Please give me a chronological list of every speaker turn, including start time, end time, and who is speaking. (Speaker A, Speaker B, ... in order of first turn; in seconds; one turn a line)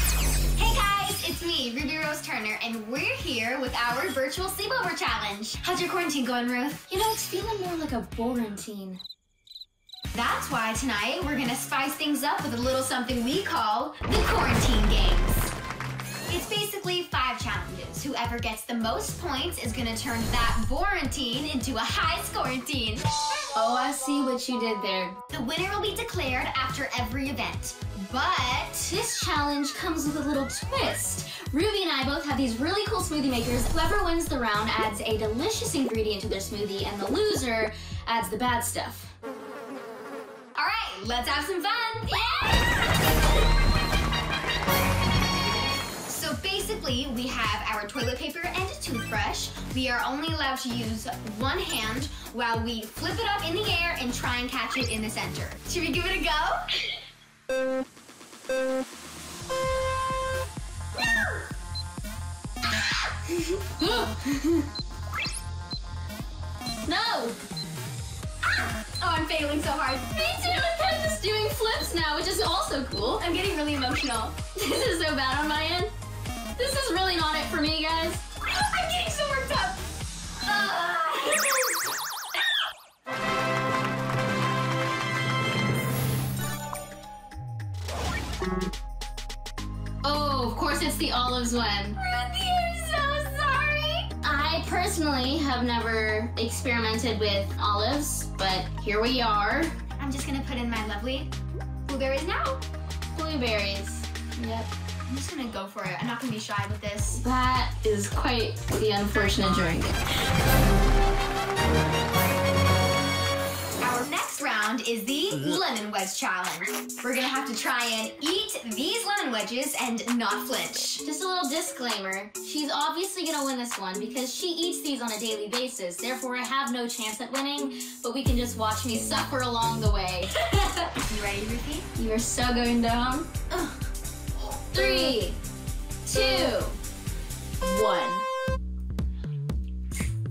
Speaker A: 0.6-6.8
Speaker B: 6.9-9.0
Speaker A: 10.1-15.5
Speaker A: 16.3-23.0
Speaker B: 23.5-25.2
Speaker A: 25.3-28.9
Speaker B: 28.9-39.1
Speaker A: 40.5-42.7
Speaker A: 46.0-56.8
Speaker B: 63.8-64.6
Speaker B: 66.8-67.4
Speaker A: 68.6-70.2
Speaker B: 70.1-73.2
Speaker A: 73.2-74.3
Speaker B: 74.5-75.9
Speaker B: 76.6-78.2
Speaker A: 78.4-79.8
Speaker A: 80.4-81.6
Speaker B: 90.0-92.0
Speaker A: 92.0-94.1
Speaker B: 94.2-99.8
Speaker A: 100.0-101.3
Speaker A: 101.8-102.6
Speaker B: 103.1-104.7
Speaker A: 105.1-107.2
Speaker B: 107.2-110.0
Speaker A: 113.8-121.0
Speaker B: 121.0-130.9
Speaker A: 131.1-131.8
Speaker B: 131.9-133.3
Speaker A: 133.5-133.8
Speaker B: 134.7-135.4
Speaker A: 134.8-135.2
Speaker B: 136.0-136.8
Speaker B: 137.6-138.2